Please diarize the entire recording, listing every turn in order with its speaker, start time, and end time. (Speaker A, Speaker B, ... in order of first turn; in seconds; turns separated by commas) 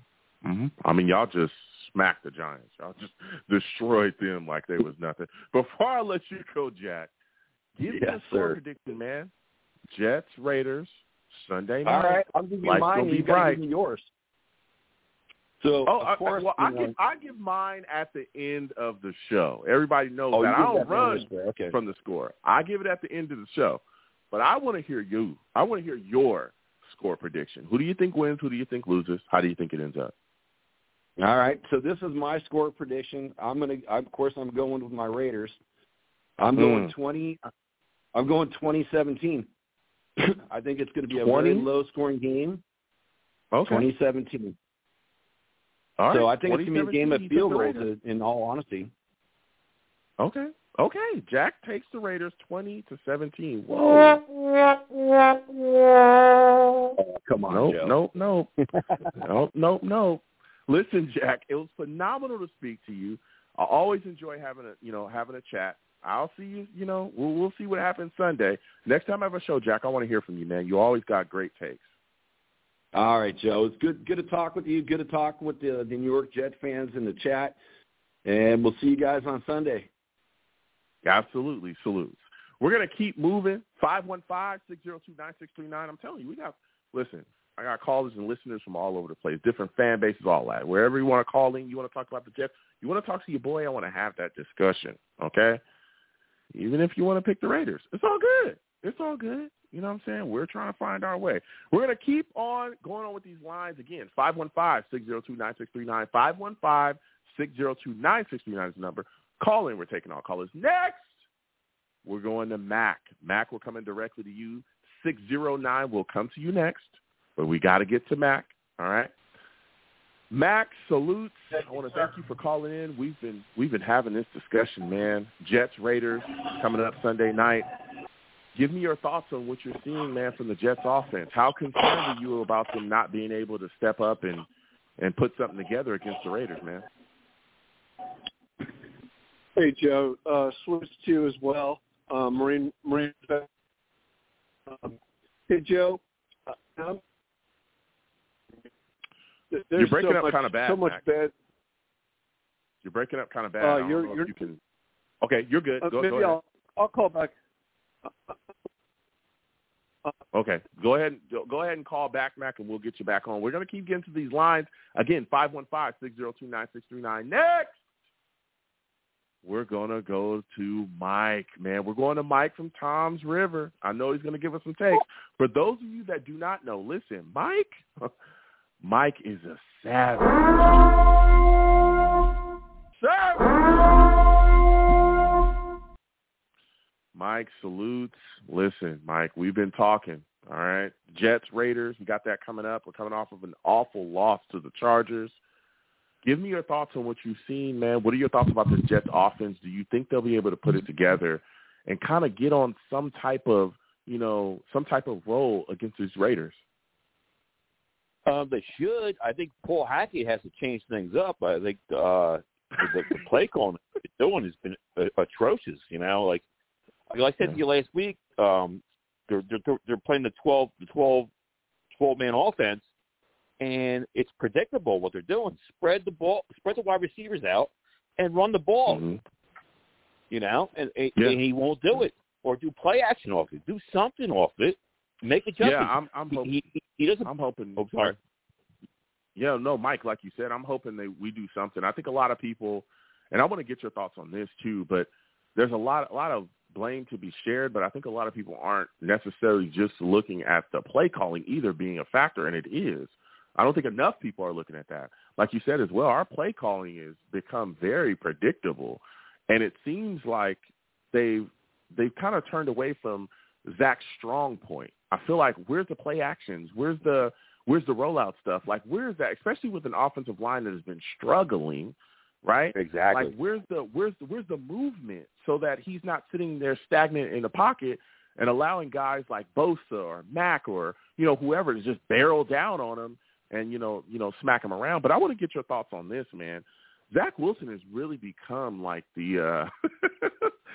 Speaker A: 0.4-7.1, Speaker A: 7.8-9.3, Speaker B: 7.9-8.6, Speaker A: 9.9-13.6, Speaker B: 11.8-14.1, Speaker B: 15.6-16.9, Speaker A: 15.8-30.1, Speaker B: 20.3-21.8, Speaker B: 31.2-35.6, Speaker B: 36.4-37.5, Speaker A: 36.6-36.9, Speaker B: 38.1-39.5, Speaker B: 40.2-42.6, Speaker A: 41.1-41.6, Speaker A: 43.5-43.8, Speaker B: 43.6-44.5, Speaker A: 46.0-47.9, Speaker B: 46.1-48.9, Speaker A: 50.2-54.2, Speaker B: 57.0-57.9, Speaker A: 57.5-58.5, Speaker A: 59.2-71.8, Speaker B: 72.9-77.6, Speaker B: 78.2-79.9, Speaker A: 81.0-95.6, Speaker A: 96.5-111.1, Speaker A: 112.0-119.1, Speaker A: 120.3-127.7, Speaker A: 128.5-134.4, Speaker A: 135.0-136.8, Speaker C: 139.6-143.5, Speaker C: 144.7-145.0, Speaker C: 145.5-147.0, Speaker C: 149.5-151.3, Speaker A: 149.8-151.0, Speaker A: 152.8-154.6, Speaker C: 153.6-154.5, Speaker A: 155.2-156.4, Speaker C: 155.8-157.3, Speaker C: 158.1-158.4, Speaker A: 160.3-167.8, Speaker A: 169.4-178.1, Speaker A: 178.8-180.8, Speaker A: 183.0-183.7, Speaker A: 187.1-195.4, Speaker A: 196.2-206.6, Speaker D: 208.2-216.4, Speaker D: 217.1-221.3, Speaker D: 221.9-222.8, Speaker D: 223.6-229.0, Speaker A: 228.9-229.2, Speaker D: 230.3-238.2, Speaker A: 235.6-236.6, Speaker A: 237.2-238.1, Speaker A: 239.3-290.5, Speaker D: 272.7-273.3